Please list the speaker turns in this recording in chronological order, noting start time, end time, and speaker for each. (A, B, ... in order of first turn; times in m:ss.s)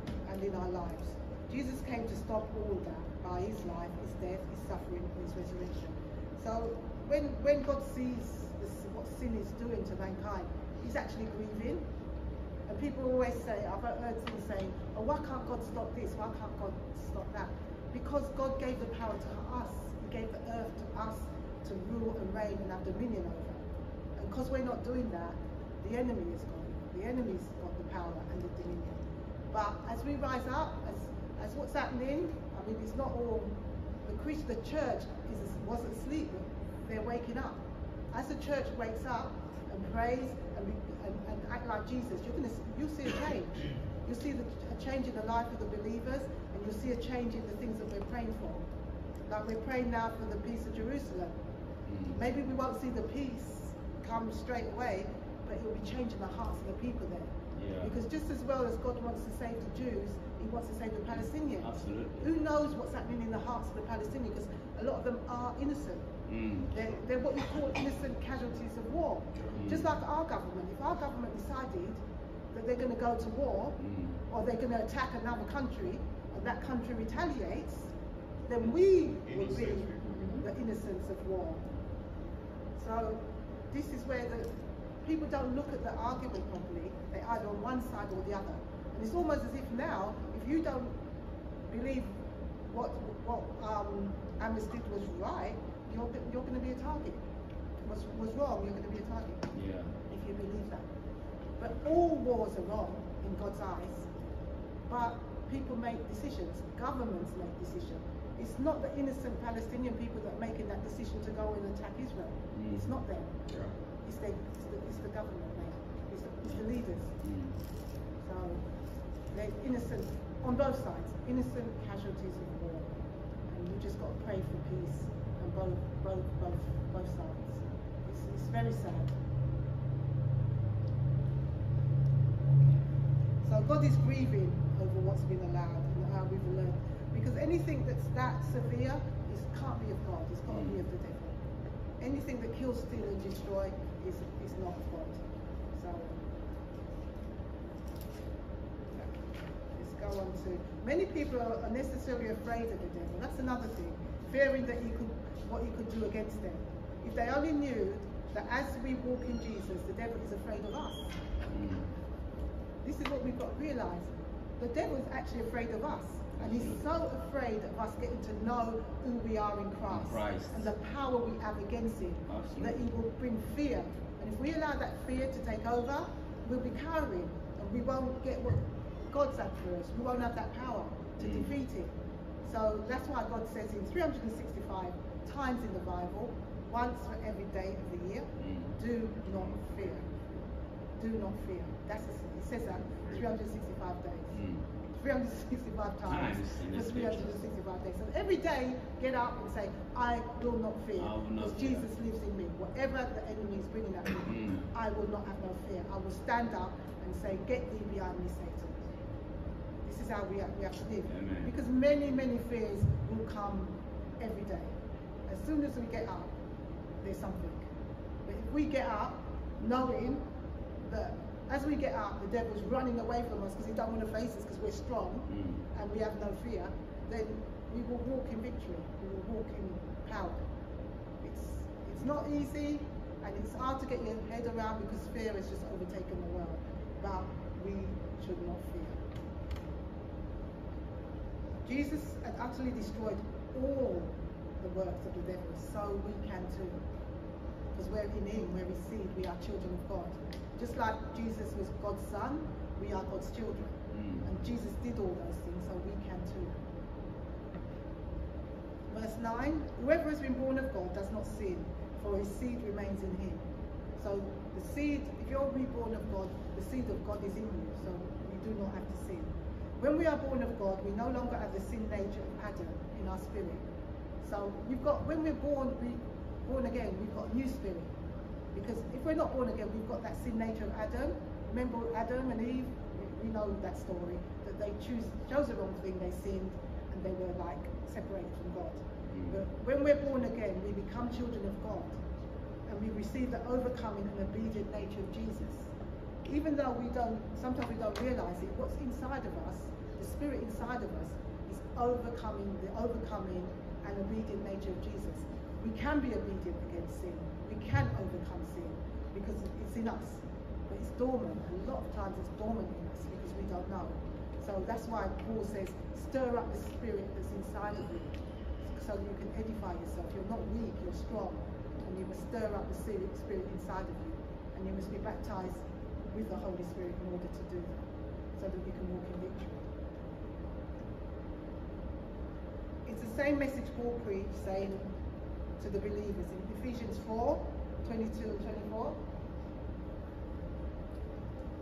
0:00.3-0:11.8 A
0:12.7-0:29.0 A
0:29.5-0:37.6 A
0:38.1-0:48.6 A
0:49.3-0:51.4 A
0:51.9-0:52.2 B
0:52.1-1:06.1 A
0:57.6-0:57.9 B
1:01.6-1:02.3 B
1:06.3-1:06.7 B
1:06.7-1:12.0 A
1:09.5-1:09.9 B
1:12.5-1:13.8 A
1:13.8-1:14.2 B
1:14.3-1:17.9 A
1:18.5-1:21.6 A
1:22.8-1:23.2 A
1:23.7-1:24.5 A
1:25.0-1:30.9 A
1:31.7-1:32.2 A
1:32.7-1:37.2 A
1:37.8-1:39.6 A
1:39.5-1:39.9 B
1:40.1-1:40.9 A
1:41.6-1:44.1 A
1:44.9-1:53.4 A
1:52.5-1:52.9 B
1:54.0-1:57.1 A
1:57.2-1:57.5 B
1:58.2-1:58.6 A
1:59.3-2:02.9 A
2:03.5-2:09.1 A
2:13.4-2:21.4 A
2:20.5-2:20.8 B
2:22.0-2:25.2 A
2:25.7-2:26.2 A
2:29.7-2:41.2 A
2:41.5-2:41.9 B
2:42.8-3:01.9 A
2:46.4-2:46.8 B
2:49.9-2:50.6 B
2:52.3-2:52.8 B
3:01.2-3:01.5 B
3:02.4-3:10.1 A
3:08.4-3:08.7 B
3:11.0-3:14.4 A
3:14.3-3:14.6 B
3:15.0-3:28.9 A
3:16.0-3:17.4 B
3:21.0-3:21.9 B
3:24.2-3:24.6 B
3:29.9-3:34.7 A
3:31.1-3:31.5 B
3:35.3-3:36.3 A
3:37.0-3:37.6 A
3:38.2-3:40.2 A
3:40.9-3:50.4 A
3:45.3-3:45.6 B
3:51.2-3:59.0 A
4:01.6-4:06.8 A
4:07.7-4:16.6 A
4:13.9-4:14.2 B
4:18.9-4:23.4 A
4:24.0-4:33.6 A
4:34.2-4:37.9 A
4:38.5-4:52.0 A
4:49.1-4:49.4 B
4:52.7-4:55.7 A
4:56.2-5:18.1 A
5:18.7-5:27.9 A
5:28.4-5:29.6 A
5:32.9-5:34.9 A
5:35.6-5:39.0 A